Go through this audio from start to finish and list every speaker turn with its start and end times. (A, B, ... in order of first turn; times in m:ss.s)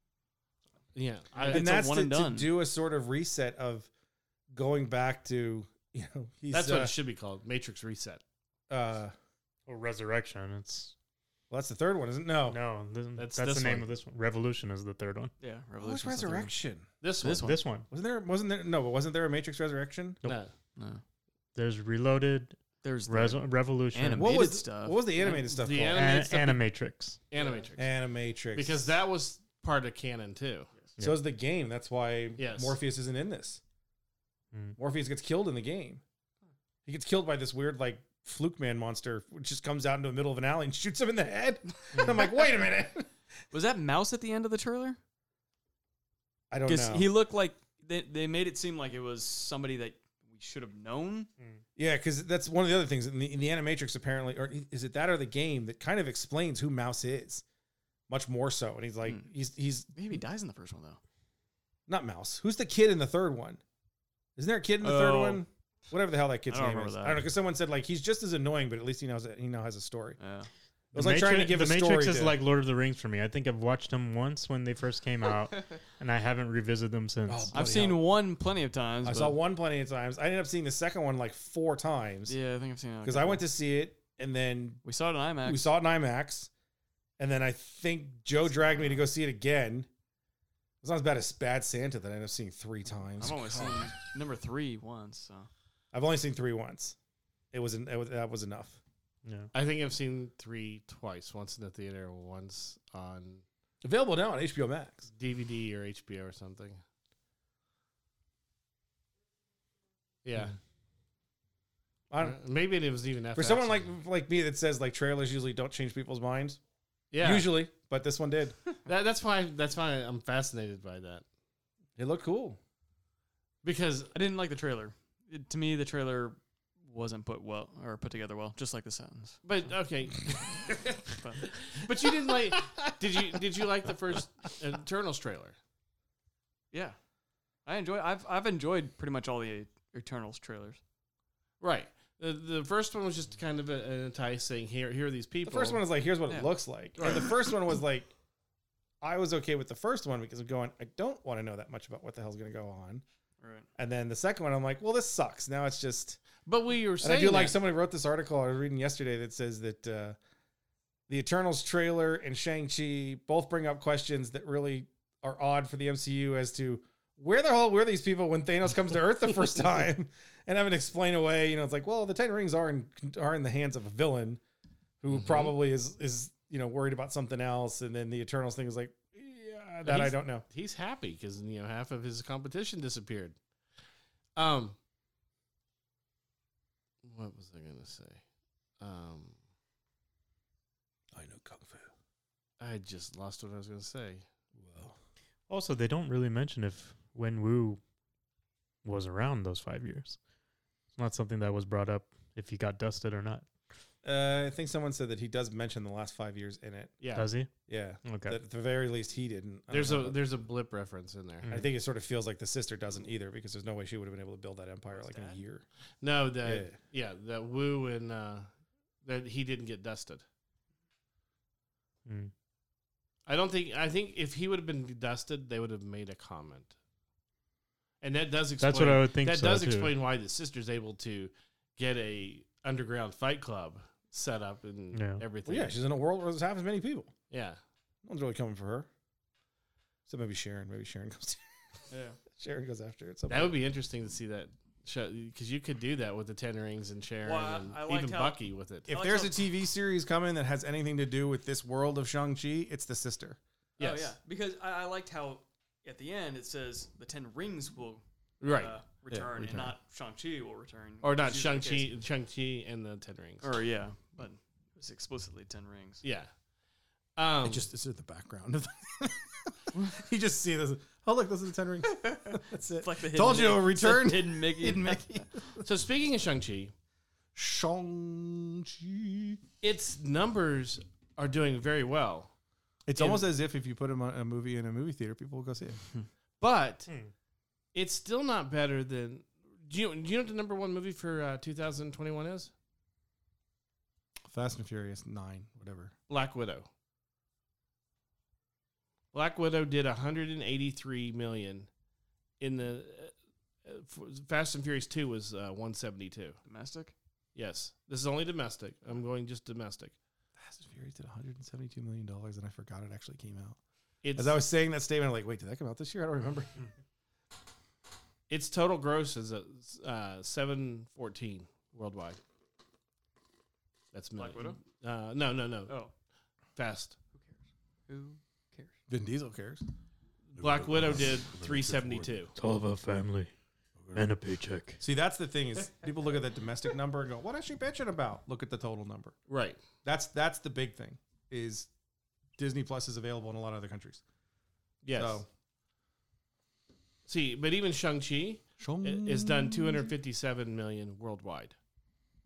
0:00.9-0:01.6 A
0:01.4-0:02.5 B
0:01.5-0:03.9 C
0:04.5-0:06.9 C
0:06.5-0:08.2 A
0:08.7-0:09.1 C
0:09.7-0:10.9 D
0:11.5-0:12.6 C
0:12.5-0:15.3 D
0:13.2-0:13.9 A
0:15.4-0:16.5 B
0:15.8-0:16.9 C
0:17.0-0:17.5 A
0:17.2-0:17.6 B
0:17.4-0:17.9 D
0:17.9-0:20.2 C
0:20.2-0:20.5 A
0:20.8-0:21.0 B
0:21.6-0:24.5 D
0:22.8-0:25.0 B
0:24.1-0:26.1 C
0:25.2-0:26.6 A
0:25.9-0:27.2 D
0:27.3-0:27.9 A
0:27.8-0:29.0 C
0:28.5-0:30.7 A
0:31.0-0:33.6 C
0:32.4-0:32.8 A
0:34.8-0:36.0 C
0:36.8-0:43.1 C
0:43.5-0:45.0 B
0:46.5-0:47.1 C
0:46.7-0:51.3 B
0:51.8-0:57.4 C
0:58.1-0:59.9 C
0:59.9-1:01.0 B
1:01.9-1:03.6 C
1:04.4-1:10.2 C
1:04.8-1:05.4 B
1:06.5-1:07.2 B
1:10.2-1:10.5 B
1:10.9-1:12.4 C
1:10.9-1:17.5 D
1:17.3-1:18.0 C
1:17.5-1:19.4 B
1:19.0-1:22.3 C
1:22.3-1:23.4 B
1:23.0-1:24.8 C
1:24.8-1:25.7 B
1:25.4-1:26.5 C
1:27.2-1:29.9 C
1:30.8-1:33.9 C
1:33.2-1:35.5 B
1:35.9-1:37.0 C
1:37.5-1:38.8 C
1:39.2-1:39.5 D
1:39.5-1:43.4 A
1:43.8-1:45.1 C
1:45.1-1:46.8 A
1:50.2-1:50.6 A
1:52.1-1:52.4 C
1:52.2-1:53.9 A
1:53.3-1:56.6 C
1:57.1-1:57.5 A
1:57.2-1:58.6 C
1:58.8-2:01.2 A
2:02.0-2:02.6 C
2:03.6-2:04.1 A
2:04.1-2:09.4 B
2:09.4-2:15.6 A
2:11.2-2:11.5 B
2:17.6-2:20.8 B
2:21.6-2:25.8 A
2:25.4-2:28.1 C
2:27.0-2:27.3 A
2:29.0-2:33.0 C
2:33.4-2:33.7 B
2:33.8-2:36.2 C
2:36.4-2:37.6 A
2:37.0-2:40.2 C
2:41.1-2:54.4 C
2:55.0-3:00.4 C
2:55.1-2:55.5 A
2:59.8-3:03.4 A
3:04.4-3:04.8 A
3:07.0-3:08.2 A
3:08.8-3:09.4 A
3:11.1-3:11.9 C
3:12.6-3:14.2 A
3:14.5-3:15.0 C
3:15.5-3:17.8 D
3:18.8-3:20.2 D
3:20.9-3:23.5 D
3:24.0-3:27.0 C
3:27.0-3:27.3 A
3:27.1-3:27.5 D
3:27.7-3:30.2 C
3:28.0-3:28.4 D
3:29.7-3:31.5 A
3:31.5-3:35.6 C
3:34.9-3:35.4 B
3:36.0-3:38.5 A
3:36.4-3:36.8 C
3:39.0-3:40.2 A
3:42.0-3:42.3 D
3:43.3-3:46.7 A
3:48.0-3:55.8 A
3:48.6-3:50.0 D
3:54.9-3:55.2 D
3:55.4-3:57.1 C
3:57.3-3:57.6 A
3:58.0-3:58.9 C
4:00.1-4:01.4 C
4:01.9-4:02.2 B
4:02.3-4:03.6 C
4:03.3-4:08.9 A
4:07.2-4:08.4 B
4:08.9-4:13.4 C
4:08.9-4:09.4 B
4:13.8-4:14.1 A
4:13.8-4:21.9 B
4:18.4-4:18.8 A
4:19.1-4:19.7 C
4:21.0-4:23.4 A
4:23.4-4:26.0 B
4:26.0-4:26.3 A
4:27.2-4:27.6 A
4:27.4-4:35.7 C
4:31.9-4:35.2 B
4:35.6-4:36.7 A
4:37.3-4:39.4 C
4:39.6-4:42.3 A
4:42.8-4:45.8 C
4:43.0-4:43.2 A
4:46.4-4:46.9 A
4:47.7-4:52.5 A
4:54.2-4:55.9 C
4:56.1-4:56.7 A
4:59.1-5:01.7 A
5:02.4-5:06.4 A
5:06.4-5:06.9 B
5:07.3-5:09.9 A
5:10.4-5:13.6 C
5:14.0-5:14.4 A
5:14.2-5:16.6 C
5:18.3-5:22.2 A
5:23.9-5:25.7 A
5:24.2-5:24.6 B
5:26.6-5:27.0 A
5:27.2-5:28.8 B
5:28.9-5:29.6 C
5:30.3-5:32.3 A
5:30.5-5:30.9 C
5:31.4-5:31.9 C
5:32.4-5:33.3 D
5:33.8-5:34.1 C
5:33.9-5:34.8 D
5:34.8-5:39.1 C
5:39.3-5:39.6 A
5:39.8-5:41.7 C
5:42.4-5:44.0 C
5:44.8-5:45.2 A
5:44.9-5:45.3 C
5:47.1-5:51.6 A
5:48.6-5:49.9 C